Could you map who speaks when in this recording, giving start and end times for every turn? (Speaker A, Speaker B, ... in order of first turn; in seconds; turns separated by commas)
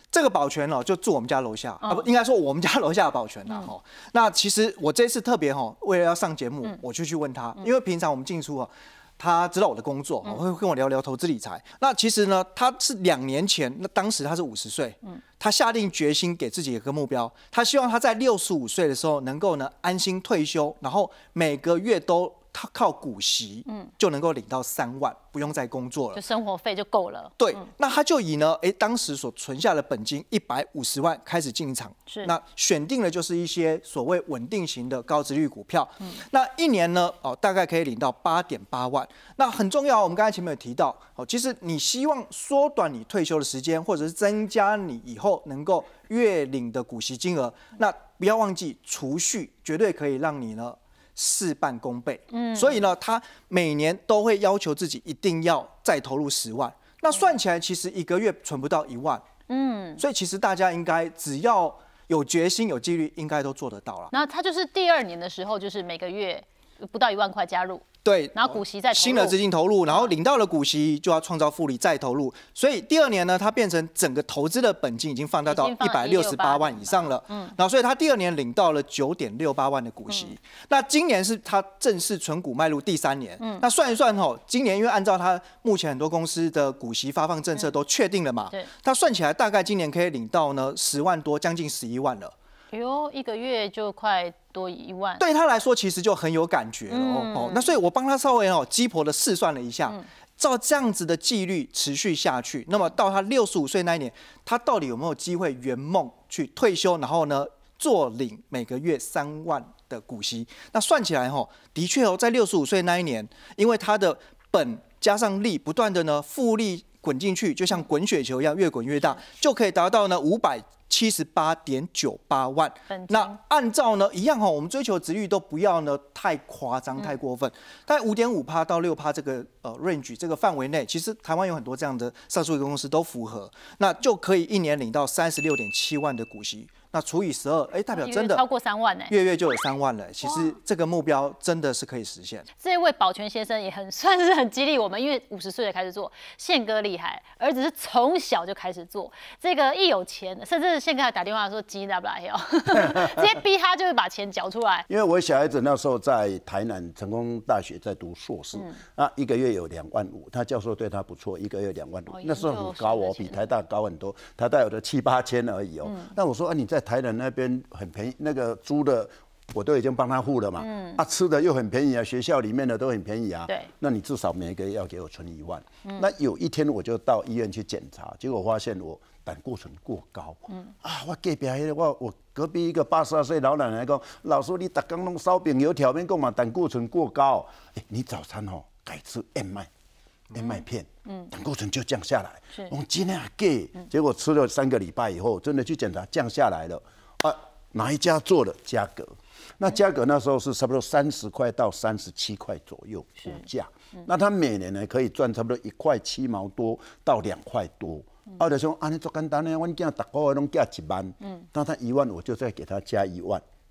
Speaker A: 0.1-26.2, Speaker B: 26.1-27.5, Speaker A: 27.4-59.2, Speaker B: 52.3-52.9, Speaker B: 59.5-60.0, Speaker A: 60.0-64.1, Speaker B: 64.1-69.4, Speaker A: 68.0-92.3, Speaker B: 75.5-77.5, Speaker B: 92.7-95.2, Speaker A: 95.2-138.4, Speaker B: 96.9-97.7, Speaker B: 122.9-123.3, Speaker B: 137.9-139.1, Speaker A: 139.1-142.5, Speaker B: 142.6-154.9, Speaker C: 152.7-153.4, Speaker C: 154.9-189.7, Speaker B: 162.1-163.4, Speaker B: 165.8-166.1, Speaker B: 170.6-171.0, Speaker C: 190.3-213.4, Speaker B: 190.4-191.3